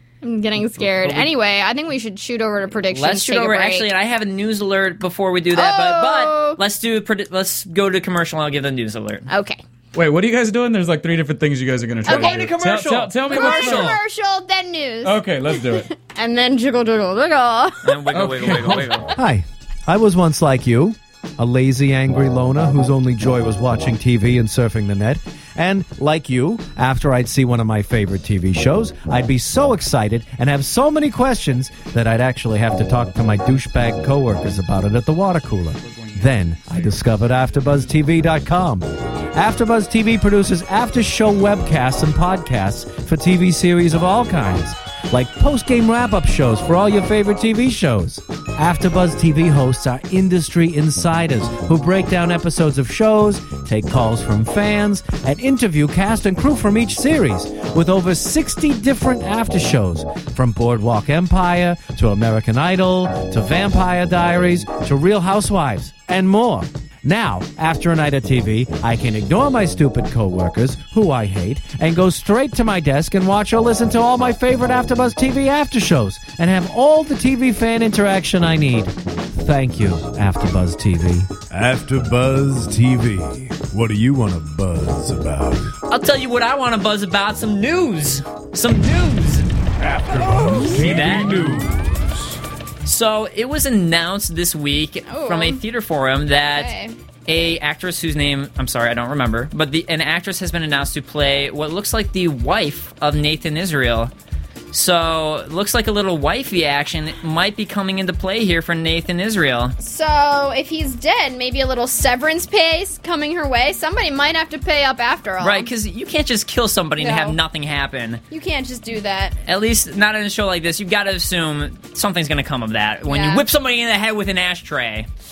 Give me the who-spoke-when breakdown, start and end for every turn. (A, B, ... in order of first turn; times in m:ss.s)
0:00.2-0:03.9 A
0:01.0-0:01.3 B
0:02.9-0:09.3 B
0:05.5-0:06.6 A
0:09.3-0:09.6 A
0:09.9-0:14.0 C
0:12.0-0:14.0 B
0:12.1-0:12.5 A
0:13.3-0:17.9 A
0:15.0-0:15.9 C
0:17.8-0:19.1 B
0:18.1-0:19.1 C
0:19.2-1:21.4 D
1:21.5-1:25.7 E
1:25.9-1:29.5 B
1:29.8-1:32.1 E
1:30.7-1:31.6 B
1:32.8-1:36.7 B
1:35.1-1:35.6 A
1:36.5-1:37.0 A
1:37.3-1:44.1 B
1:44.7-1:49.8 B
1:49.8-1:55.7 A
1:55.4-1:58.2 B
1:57.0-1:57.4 A
1:58.3-1:59.4 A
1:59.5-2:05.1 B
2:03.1-2:03.4 A